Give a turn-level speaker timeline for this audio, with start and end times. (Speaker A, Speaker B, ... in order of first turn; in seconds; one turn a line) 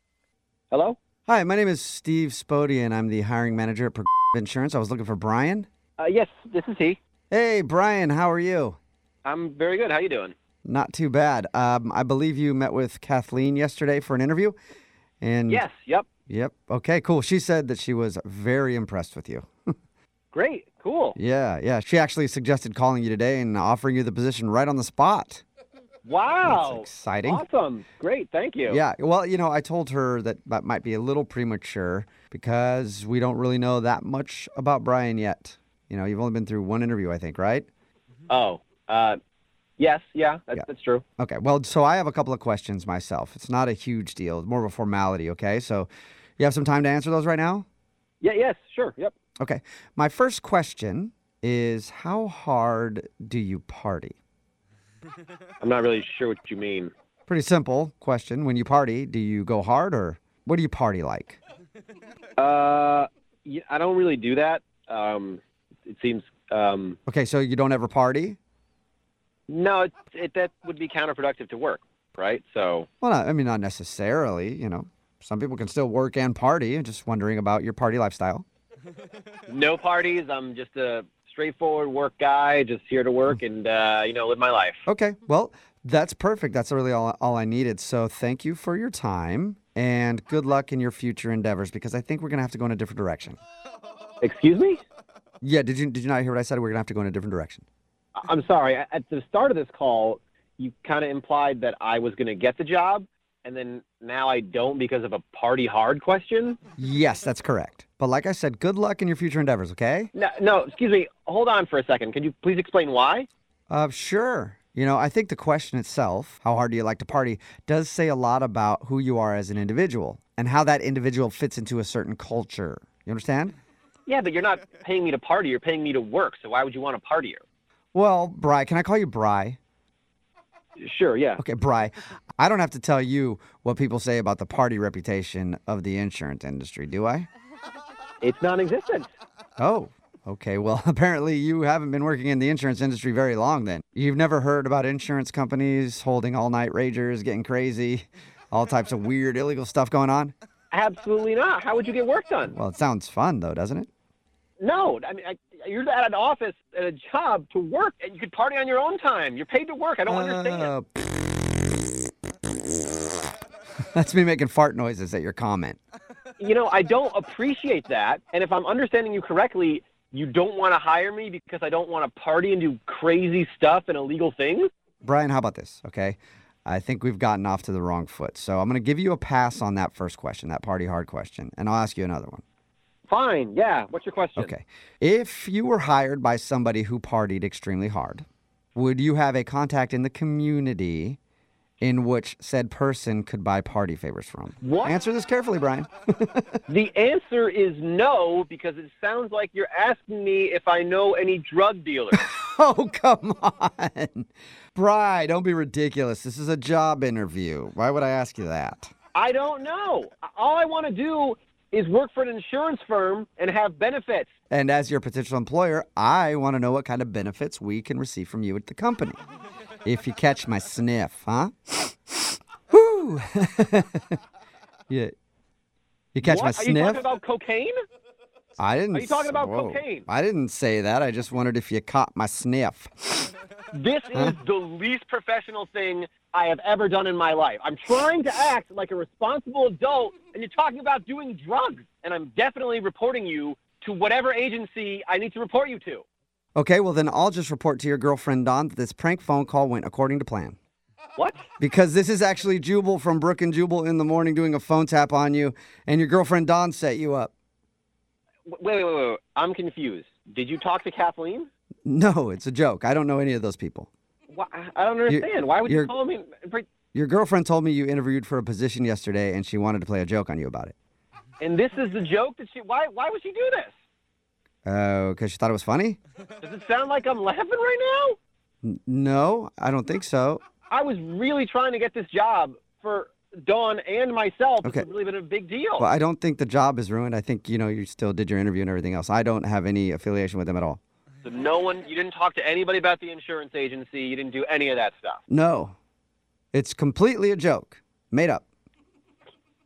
Speaker A: 0.7-1.0
Speaker B: 1.3-5.7
Speaker A: 6.0-7.0
Speaker B: 7.3-8.8
Speaker A: 9.2-10.3
Speaker B: 10.6-14.6
Speaker B: 15.2-15.7
Speaker A: 15.5-16.1
Speaker B: 16.3-19.5
Speaker A: 20.3-21.2
Speaker B: 21.1-25.4
Speaker A: 26.0-28.8
Speaker B: 26.4-27.4
Speaker B: 28.6-37.7
Speaker A: 38.3-39.2
Speaker A: 39.8-41.0
Speaker B: 41.2-47.6
Speaker A: 48.2-49.1
Speaker B: 49.4-54.1
Speaker A: 55.6-56.9
Speaker B: 57.3-61.4
Speaker A: 62.4-67.0
Speaker B: 67.1-68.4
Speaker A: 69.5-72.9
Speaker B: 73.0-78.4
Speaker A: 79.5-84.8
Speaker B: 84.8-93.4
Speaker A: 94.2-94.8
Speaker B: 95.4-97.6
Speaker A: 98.2-106.6
Speaker B: 106.8-110.1
Speaker A: 110.1-113.3
Speaker B: 113.7-123.5
Speaker A: 124.0-127.4
Speaker B: 127.9-129.6
Speaker A: 130.8-131.4
Speaker B: 131.4-137.3
Speaker A: 138.2-139.1
Speaker B: 139.6-150.3
Speaker A: 150.7-152.6
Speaker B: 152.5-153.9
Speaker A: 154.6-160.7
Speaker B: 160.1-161.1
Speaker B: 163.9-165.8
Speaker A: 166.4-174.7
Speaker B: 175.0-182.4
Speaker A: 183.1-184.5
Speaker B: 184.4-191.2
Speaker B: 191.8-196.6
Speaker A: 194.6-194.9
Speaker A: 196.7-202.2
Speaker B: 202.1-208.9
Speaker A: 209.1-214.3
Speaker B: 214.5-219.2
Speaker B: 219.8-224.1
Speaker B: 226.1-227.0
Speaker A: 226.2-227.8
Speaker B: 228.6-233.3
Speaker A: 228.9-230.1
Speaker A: 233.7-246.0
Speaker B: 246.5-250.6
Speaker A: 251.2-251.4
Speaker B: 251.6-257.3
Speaker A: 258.5-261.5
Speaker B: 261.9-263.9
Speaker A: 264.3-266.7
Speaker B: 265.1-265.9
Speaker B: 266.9-270.7
Speaker A: 271.4-273.7
Speaker B: 274.6-276.0
Speaker A: 276.4-278.2
Speaker B: 278.6-280.4
Speaker A: 280.7-285.9
Speaker B: 285.8-290.8
Speaker A: 291.2-295.2
Speaker B: 295.3-295.7
Speaker B: 296.5-298.4